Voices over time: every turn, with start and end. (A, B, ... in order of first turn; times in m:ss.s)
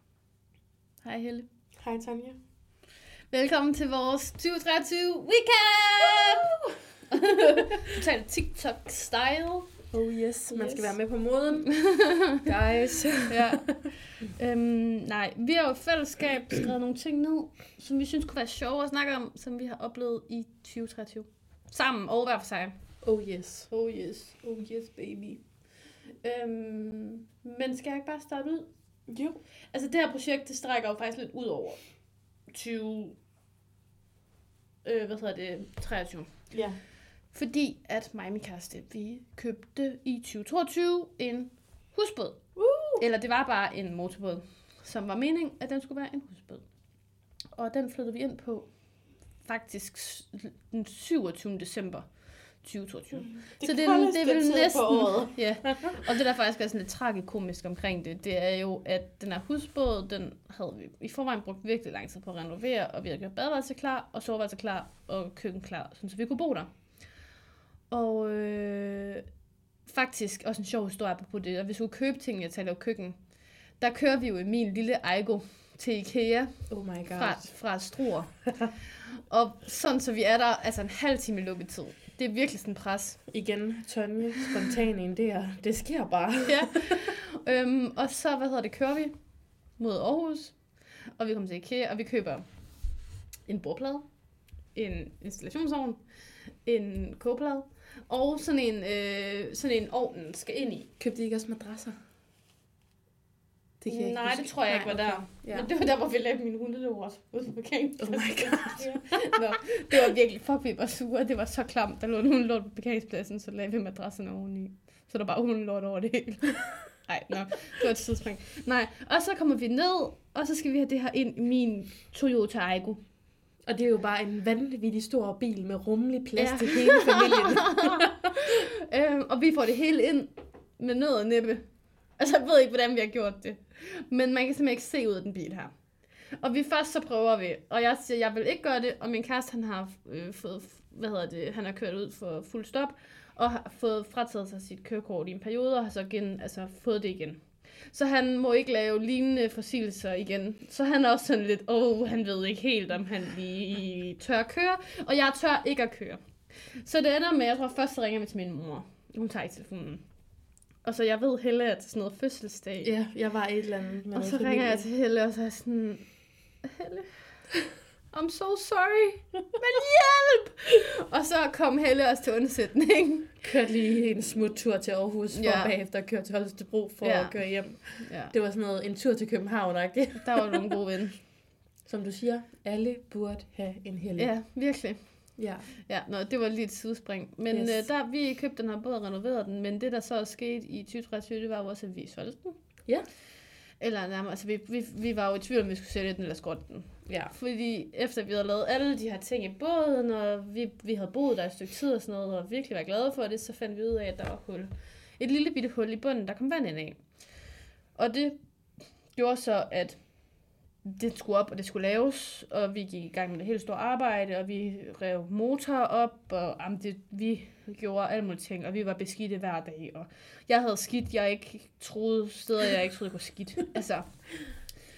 0:01.0-0:01.5 A
0:01.8-0:02.4 B
0:03.3-0:06.6 A
0:06.2-0:06.4 B
0:07.1-0:09.7 A
0:09.9-0:13.5 B
0:10.5-0:10.9 A
0:11.7-0:22.7 A
0:23.0-0:23.7 B
0:23.7-0:25.4 A
0:26.2-0:28.7 A
0:29.1-0:29.4 B
0:29.7-0:31.8 A
0:32.5-0:33.2 A
0:34.8-0:36.5 A
0:36.5-0:36.8 B
0:37.3-0:46.6 A
0:42.6-0:43.0 B
0:47.5-0:48.7 A
0:49.4-0:52.1 A
0:52.6-1:06.7 A
0:53.1-0:55.8 B
1:07.9-1:09.2 A
1:09.9-1:13.2 A
1:13.8-1:23.2 A
1:16.7-1:17.5 B
1:23.3-1:26.9 B
1:26.4-1:29.1 A
1:29.8-1:32.4 A
1:33.4-1:34.0 A
1:34.7-1:36.0 A
1:36.6-1:40.9 A
1:41.0-1:42.0 B
1:43.8-1:45.7 B
1:43.9-2:03.0 A
1:48.0-1:49.2 B
2:03.6-2:08.3 B
2:06.4-2:15.7 A
2:16.4-2:40.0 A
2:40.8-2:42.9 A
2:42.8-2:44.9 B
2:44.1-2:47.2 A
2:48.1-2:53.5 A
2:53.4-3:00.8 B
2:55.3-2:55.7 A
2:57.0-2:58.3 A
3:00.2-3:01.2 A
3:01.8-3:04.5 B
3:04.2-3:12.6 A
3:05.4-3:05.7 B
3:07.5-3:07.9 B
3:13.8-3:27.0 A
3:17.0-3:17.3 B
3:27.9-3:28.4 A
3:29.1-3:30.0 A
3:30.8-3:44.5 A